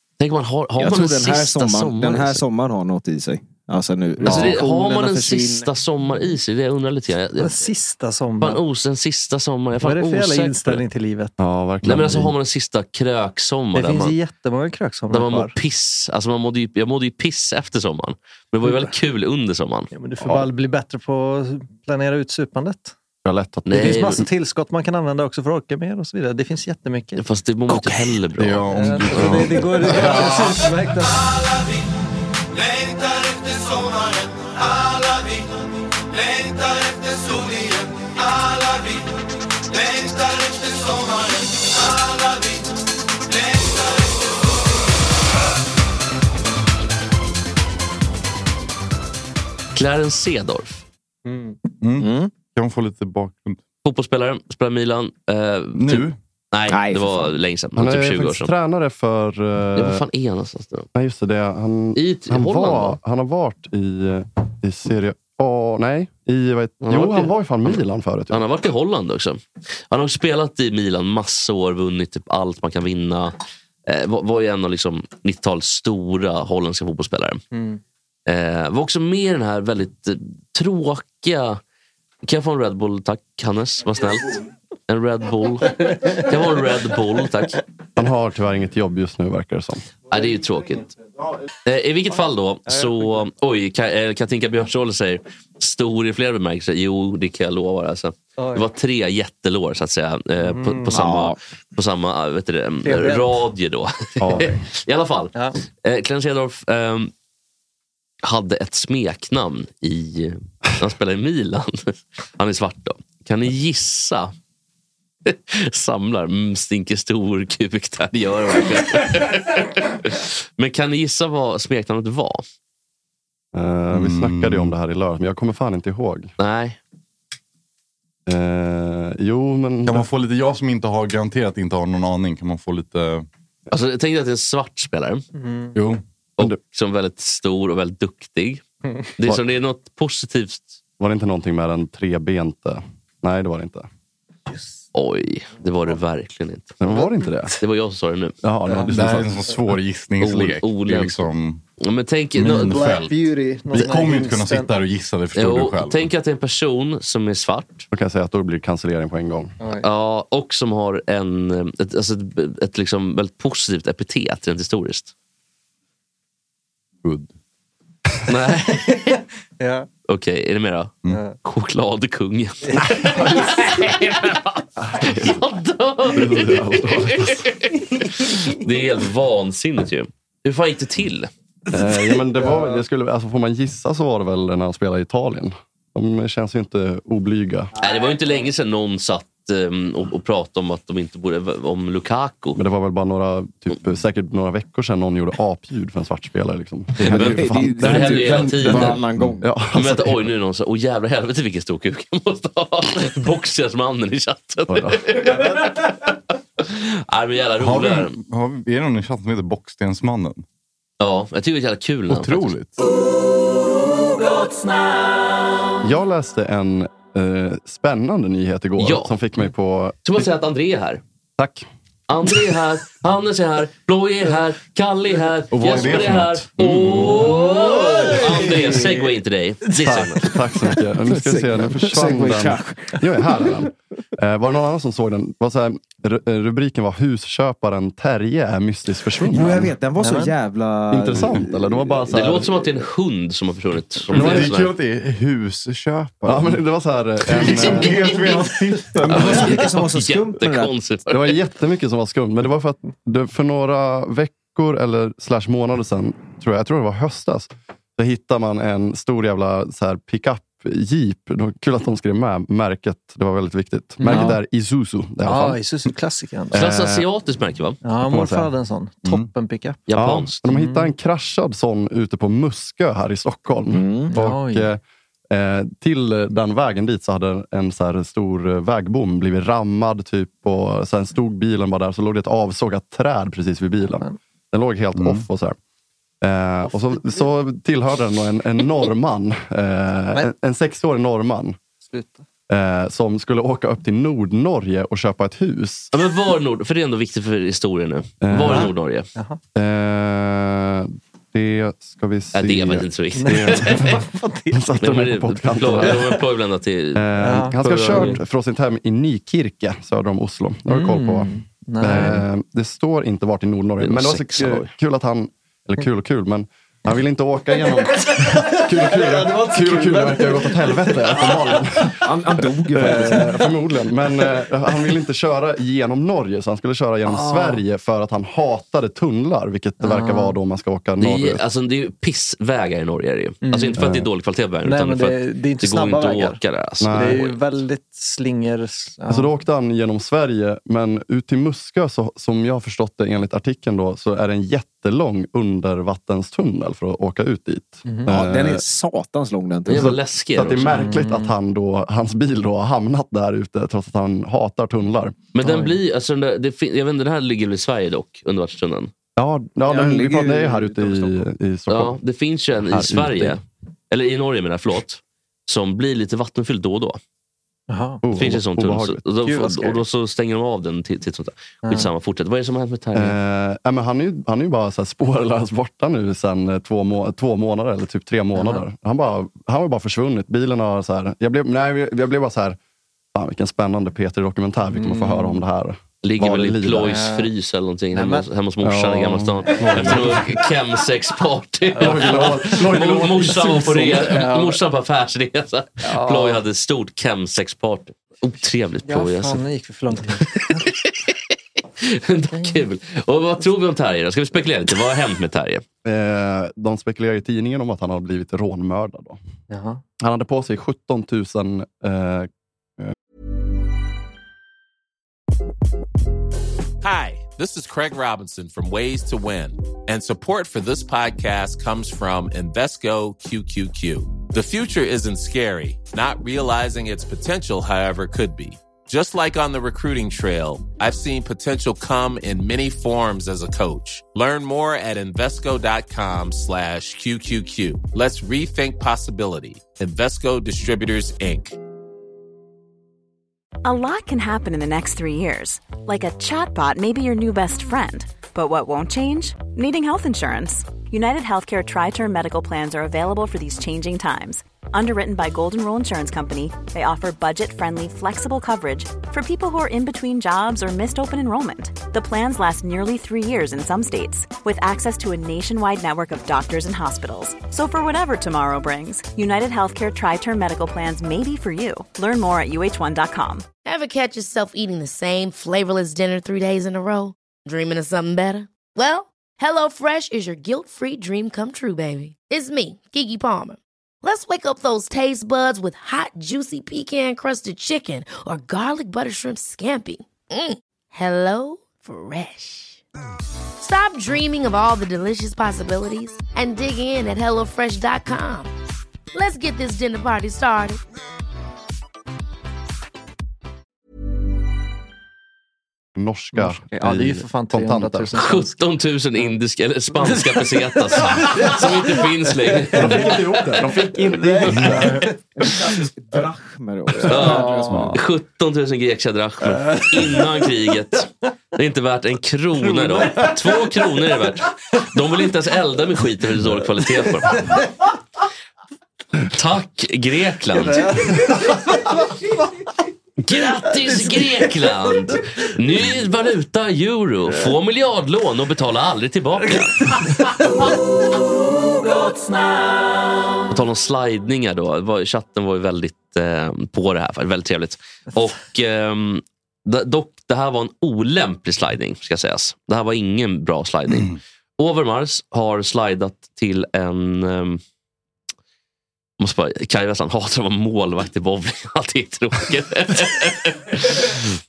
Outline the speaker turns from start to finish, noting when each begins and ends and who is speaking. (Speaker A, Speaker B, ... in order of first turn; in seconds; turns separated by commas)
Speaker A: 0.2-2.4, Speaker B: 0.8-5.7, Speaker A: 4.2-7.7, Speaker C: 4.3-4.5, Speaker D: 7.4-8.6, Speaker A: 8.4-10.8, Speaker D: 9.8-11.3, Speaker C: 11.4-12.3, Speaker A: 11.8-14.2, Speaker D: 13.7-15.6, Speaker A: 15.1-19.9, Speaker D: 18.6-18.9, Speaker D: 19.9-22.9, Speaker C: 20.2-20.5, Speaker C: 23.2-23.9, Speaker A: 23.6-24.2, Speaker D: 23.7-27.2, Speaker A: 27.1-29.4, Speaker E: 28.4-30.6, Speaker D: 28.7-31.3, Speaker A: 49.7-50.8, Speaker D: 51.2-51.6, Speaker E: 51.8-53.6, Speaker B: 52.0-52.3, Speaker A: 53.8-58.5, Speaker E: 55.7-56.2, Speaker B: 56.7-57.3, Speaker C: 57.8-60.0, Speaker A: 59.8-60.9, Speaker C: 60.9-68.4, Speaker A: 62.0-63.0, Speaker A: 66.8-73.3, Speaker A: 73.8-77.4, Speaker D: 77.5-77.8, Speaker A: 78.3-81.6, Speaker A: 82.2-87.6, Speaker D: 85.9-86.2, Speaker C: 88.0-89.9, Speaker A: 90.1-91.0, Speaker A: 91.6-107.1, Speaker D: 92.7-93.2, Speaker D: 98.4-98.7, Speaker D: 100.4-101.1, Speaker B: 100.9-101.4, Speaker D: 102.8-103.4, Speaker C: 104.2-104.6, Speaker A: 108.2-114.3, Speaker A: 115.2-122.4, Speaker C: 123.5-126.3, Speaker E: 123.9-124.7, Speaker A: 126.4-126.8, Speaker C: 128.2-130.1, Speaker E: 129.8-133.2, Speaker A: 133.7-135.2, Speaker D: 135.3-135.8, Speaker E: 135.8-136.0, Speaker A: 136.4-138.6, Speaker A: 139.2-140.8, Speaker C: 141.0-143.9, Speaker D: 144.5-144.8, Speaker A: 144.9-146.8, Speaker C: 146.8-147.6, Speaker D: 146.9-147.5, Speaker A: 147.6-148.3, Speaker C: 148.4-149.4, Speaker D: 148.7-149.5, Speaker E: 148.9-151.6, Speaker A: 150.2-152.9, Speaker E: 152.3-153.1, Speaker D: 152.4-154.7, Speaker E: 153.7-156.1, Speaker A: 155.3-157.9, Speaker C: 157.9-159.5, Speaker D: 159.6-159.8, Speaker A: 159.8-165.1, Speaker E: 167.0-167.3, Speaker A: 168.3-169.2, Speaker D: 169.6-169.9, Speaker A: 170.1-181.3, Speaker D: 171.1-171.4, Speaker D: 172.7-173.4, Speaker C: 174.8-175.4, Speaker C: 176.1-177.4, Speaker C: 181.7-187.7, Speaker D: 182.3-182.8, Speaker A: 187.8-192.6, Speaker C: 192.6-200.3, Speaker A: 197.0-199.0, Speaker B: 197.0-199.4, Speaker A: 199.7-208.2, Speaker C: 204.7-205.0, Speaker E: 207.6-210.4, Speaker A: 211.0-212.5, Speaker E: 212.1-212.7, Speaker C: 215.8-220.0, Speaker A: 218.8-219.1, Speaker A: 220.0-221.0, Speaker C: 221.4-221.7, Speaker A: 222.1-230.3, Speaker E: 225.5-227.3, Speaker C: 225.6-226.1, Speaker D: 227.5-229.1, Speaker C: 229.7-239.7, Speaker B: 231.1-233.4, Speaker B: 239.2-242.1, Speaker D: 240.0-240.3, Speaker C: 240.9-242.6, Speaker A: 242.1-244.7, Speaker E: 244.1-246.6, Speaker C: 244.1-244.5, Speaker C: 246.2-248.0, Speaker E: 247.3-249.6, Speaker A: 247.4-248.1, Speaker B: 248.9-250.7, Speaker A: 249.1-251.4, Speaker C: 251.1-265.6, Speaker D: 264.0-264.4, Speaker D: 265.2-266.7, Speaker C: 266.5-267.1, Speaker A: 266.5-267.8, Speaker D: 267.8-269.8, Speaker C: 268.0-268.5, Speaker A: 269.9-270.4, Speaker C: 269.9-285.6, Speaker D: 270.5-270.9, Speaker B: 273.7-274.1, Speaker D: 274.1-274.7, Speaker E: 284.9-285.2, Speaker C: 286.2-291.6, Speaker D: 291.8-292.2, Speaker C: 292.5-295.9, Speaker A: 295.9-299.1, Speaker C: 298.2-298.7, Speaker D: 298.5-299.4, Speaker C: 299.5-304.0, Speaker A: 302.3-304.0, Speaker D: 303.1-304.7, Speaker C: 304.5-306.1, Speaker A: 304.8-308.2, Speaker D: 305.7-306.2, Speaker C: 306.9-331.4, Speaker D: 307.2-308.2, Speaker D: 310.7-312.2, Speaker A: 313.8-314.7, Speaker D: 318.1-321.0, Speaker B: 322.0-323.2, Speaker D: 327.0-327.6, Speaker D: 329.8-330.4, Speaker A: 331.0-337.4, Speaker D: 333.4-333.9, Speaker C: 333.8-334.0, Speaker D: 334.6-339.3, Speaker C: 336.8-337.2, Speaker C: 339.1-348.6, Speaker D: 347.8-348.1, Speaker B: 348.1-349.9, Speaker A: 349.7-351.0, Speaker C: 349.7-355.1, Speaker D: 350.7-351.4, Speaker A: 355.3-358.9, Speaker D: 355.4-355.8, Speaker C: 359.1-362.0, Speaker B: 359.6-361.3, Speaker A: 361.7-367.0, Speaker C: 362.6-363.4, Speaker D: 367.7-368.0, Speaker C: 368.0-369.0, Speaker A: 368.1-373.1, Speaker D: 369.2-369.8, Speaker D: 371.6-371.9, Speaker C: 372.9-382.6, Speaker D: 378.3-378.6, Speaker C: 383.1-387.0, Speaker D: 384.7-385.4, Speaker A: 386.0-399.4, Speaker D: 386.8-387.3, Speaker D: 387.9-388.3, Speaker C: 388.6-390.3, Speaker D: 389.4-390.4, Speaker D: 391.7-394.6, Speaker C: 391.8-394.1, Speaker D: 395.8-396.4, Speaker D: 398.8-400.6, Speaker A: 400.1-401.1, Speaker A: 401.8-405.6, Speaker D: 402.3-402.6, Speaker C: 405.8-409.2, Speaker D: 409.5-409.8, Speaker C: 410.0-412.9, Speaker F: 416.8-441.6, Speaker G: 443.6-473.4, Speaker H: 473.6-492.8, Speaker H: 493.6-498.5, Speaker H: 499.1-500.8, Speaker C: 505.9-508.1, Speaker D: 506.3-508.6, Speaker A: 508.1-513.2, Speaker D: 509.9-515.1, Speaker C: 512.7-514.9, Speaker B: 515.4-518.0, Speaker D: 517.0-517.9, Speaker A: 517.0-527.6, Speaker D: 519.5-520.7, Speaker D: 522.6-524.1, Speaker D: 526.8-527.7, Speaker A: 529.3-531.2, Speaker D: 530.6-532.0, Speaker A: 533.2-539.9, Speaker D: 533.4-535.1, Speaker D: 537.3-537.5, Speaker A: 543.5-557.6, Speaker A: 559.2-564.2